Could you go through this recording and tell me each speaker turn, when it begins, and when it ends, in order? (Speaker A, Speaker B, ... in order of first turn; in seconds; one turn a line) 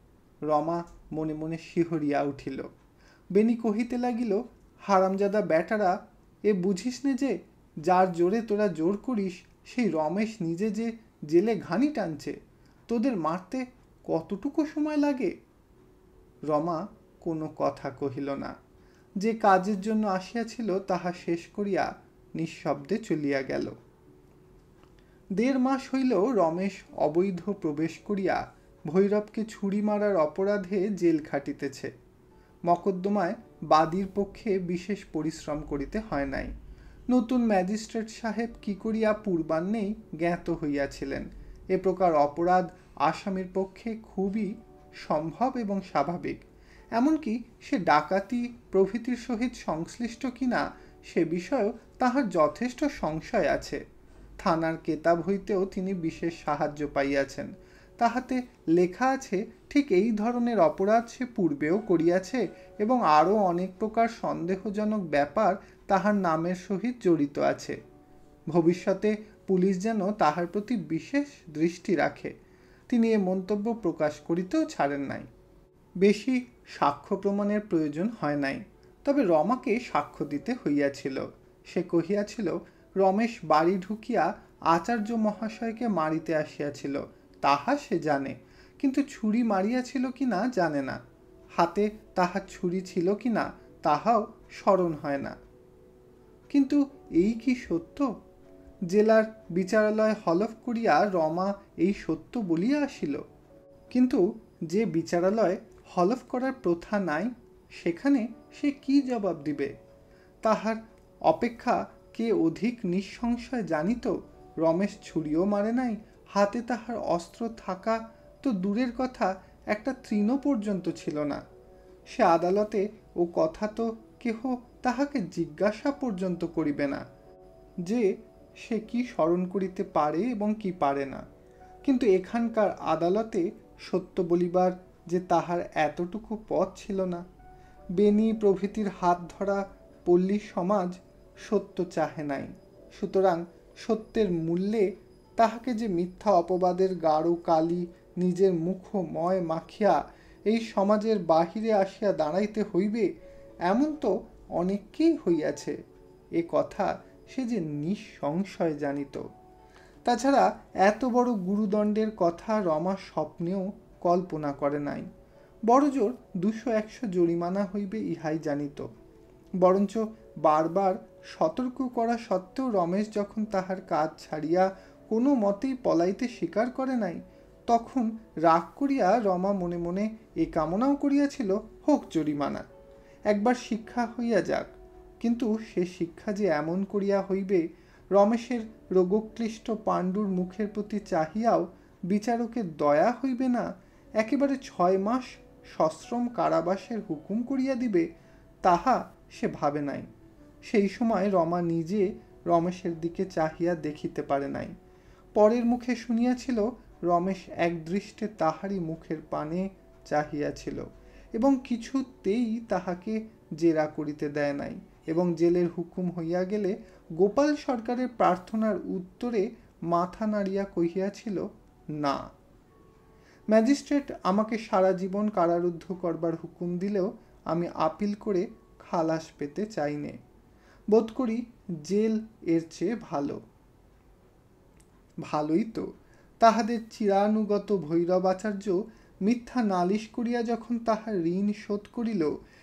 Speaker A: 0.5-2.7
Speaker A: 3.4-12.4
Speaker A: 12.9-15.3
Speaker A: 16.5-18.6
Speaker A: 19.2-23.8
Speaker A: 25.4-31.9
Speaker A: 32.7-36.5
Speaker A: 37.1-46.4
Speaker A: 47.0-53.8
Speaker A: 54.4-67.8
Speaker A: 68.5-72.3
Speaker A: 72.9-75.3
Speaker A: 76.0-91.0
Speaker A: 91.6-95.3
Speaker A: 96.5-98.1
Speaker A: 98.9-103.2
Speaker A: 103.9-109.7
Speaker A: 110.4-121.4
Speaker A: 122.1-127.0
Speaker A: 128.6-131.2
Speaker A: 131.8-137.2
Speaker A: 138.0-153.1
Speaker A: 153.7-155.8
Speaker A: 156.4-159.3
Speaker A: 160.1-165.1
Speaker A: 165.7-168.9
Speaker A: 169.6-182.7
Speaker A: 183.3-184.7
Speaker A: 185.2-187.6
Speaker A: 188.2-193.7
Speaker A: 194.2-198.1
Speaker A: 198.6-200.1
Speaker A: 200.7-204.7
Speaker A: 205.4-221.5
Speaker A: 223.5-230.2
Speaker A: 230.9-233.4
Speaker A: 235.3-235.9
Speaker A: 236.4-242.3